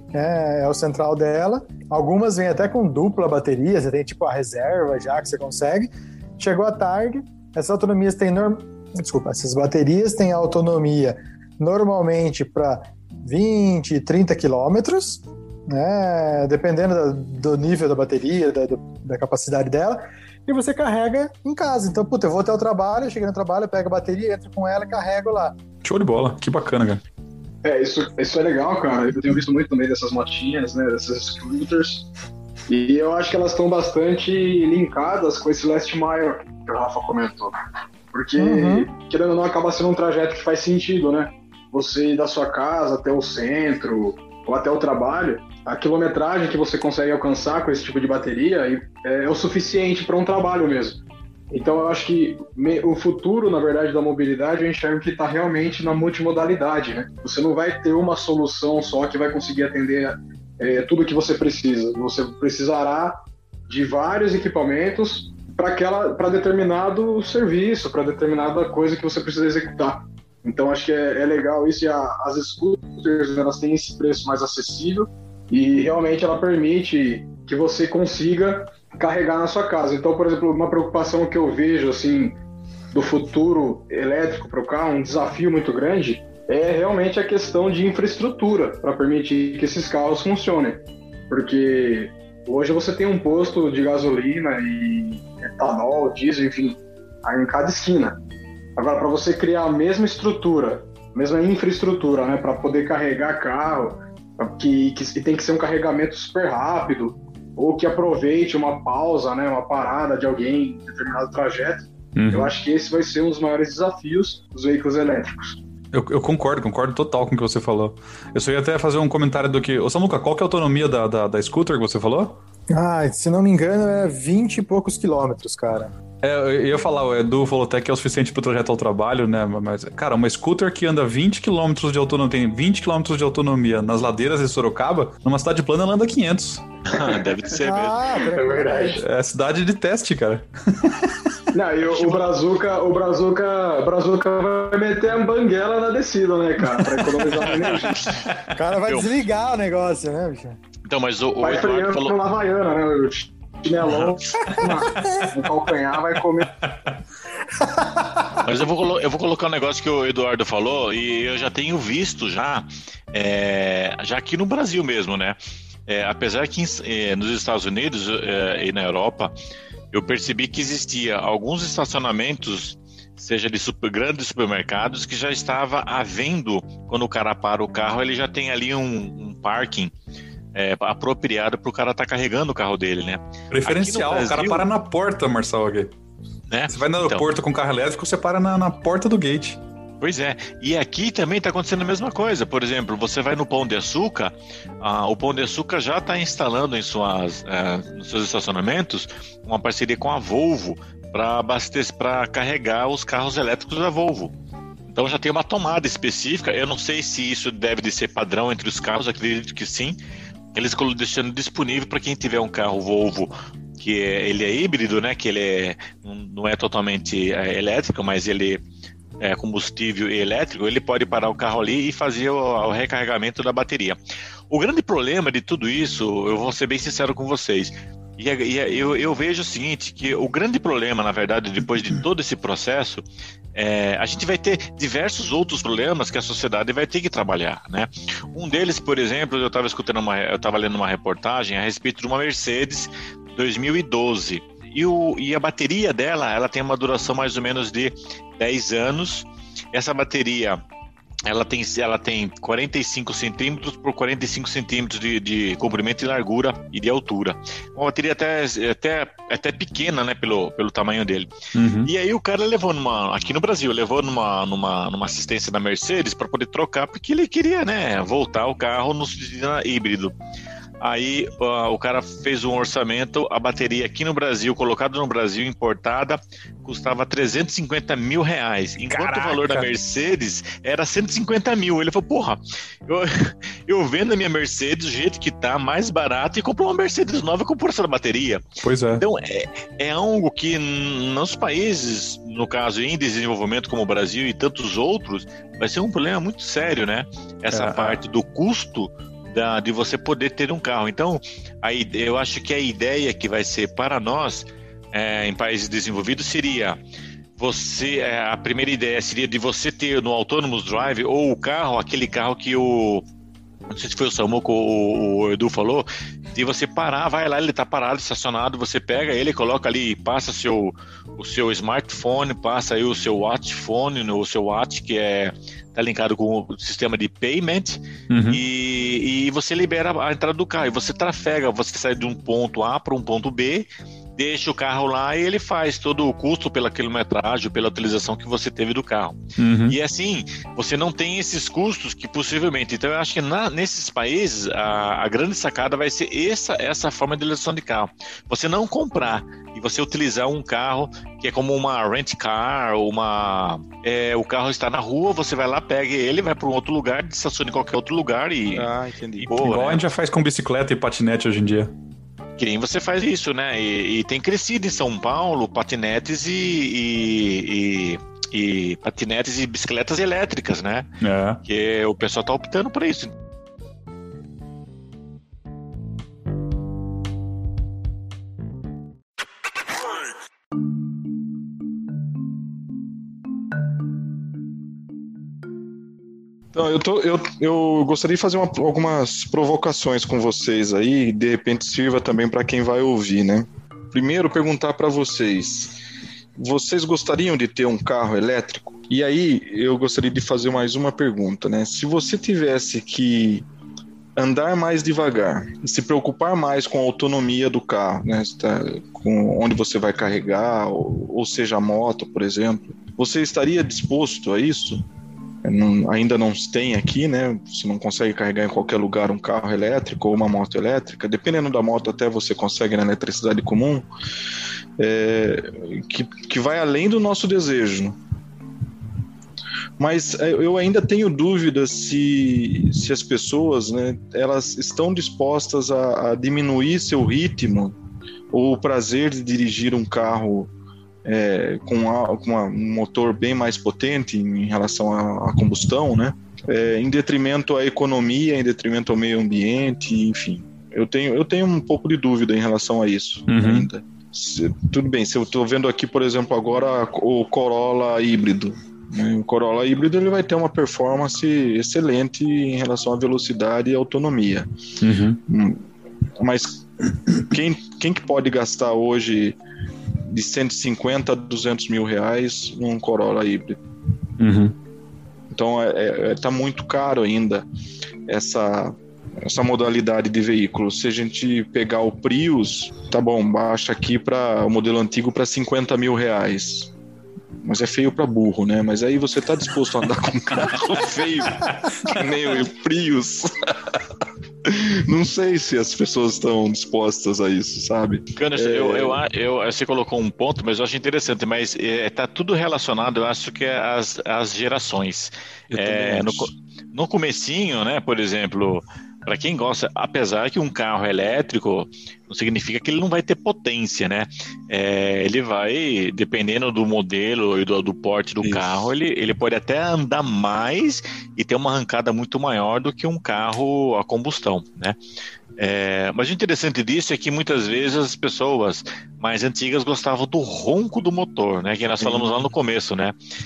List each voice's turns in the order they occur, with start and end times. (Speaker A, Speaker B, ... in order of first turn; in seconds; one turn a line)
Speaker A: 0.1-25.6
Speaker B: 25.8-27.0
Speaker C: 27.6-32.1
Speaker C: 32.7-37.5
Speaker C: 38.1-51.0
Speaker A: 38.4-38.9
Speaker C: 51.5-82.4
Speaker C: 82.9-98.2
Speaker C: 98.8-115.6
Speaker B: 112.2-112.5
Speaker B: 115.9-122.4
Speaker A: 122.7-125.9
Speaker B: 126.2-136.6
Speaker D: 136.8-138.3
Speaker C: 137.0-137.2
Speaker A: 137.6-139.0
Speaker C: 138.2-139.0
Speaker B: 139.0-141.1
Speaker C: 141.5-148.2
Speaker D: 141.9-142.3
Speaker B: 146.8-147.4
Speaker D: 147.5-148.2
Speaker A: 148.5-150.6
Speaker D: 148.8-149.1
Speaker D: 150.9-152.2
Speaker C: 151.4-156.5
Speaker D: 153.9-154.5
Speaker A: 157.6-158.1
Speaker D: 158.4-169.3
Speaker D: 169.9-179.9
Speaker D: 180.5-184.7
Speaker B: 183.5-185.9
Speaker D: 186.5-187.2
Speaker B: 186.7-189.6
Speaker D: 190.0-204.3
Speaker D: 204.9-210.0
Speaker D: 210.5-218.6
Speaker D: 219.2-224.0
Speaker D: 224.5-233.0
Speaker D: 233.5-250.6
Speaker D: 251.2-261.3
Speaker B: 261.5-261.9
Speaker D: 261.8-270.1
Speaker D: 270.8-288.4
Speaker B: 278.9-279.7
Speaker B: 288.6-289.0
Speaker D: 289.0-306.8
Speaker B: 297.5-298.0
Speaker D: 307.4-313.0
Speaker D: 313.7-359.8
Speaker B: 328.1-328.4
Speaker B: 339.4-339.8
Speaker E: 358.5-359.3
Speaker B: 359.3-361.7
Speaker D: 362.4-370.9
Speaker B: 371.0-371.4
Speaker D: 371.4-373.1
Speaker E: 386.5-395.8
Speaker E: 396.4-403.5
Speaker E: 404.2-414.8
Speaker E: 415.4-423.9
Speaker E: 424.8-428.0
Speaker E: 429.8-437.7
Speaker E: 438.3-440.5
Speaker E: 441.0-464.5
Speaker B: 453.3-453.7
Speaker B: 464.8-465.2
Speaker E: 465.3-465.6
Speaker E: 466.2-466.6
Speaker E: 467.2-469.4
Speaker E: 470.1-473.6
Speaker B: 474.2-474.5
Speaker E: 475.3-477.4
Speaker E: 478.1-486.7
Speaker E: 487.4-493.8
Speaker E: 494.4-499.0
Speaker D: 498.1-524.8
Speaker E: 505.5-506.3
Speaker E: 518.2-518.7
Speaker D: 525.4-533.0
Speaker E: 531.8-532.2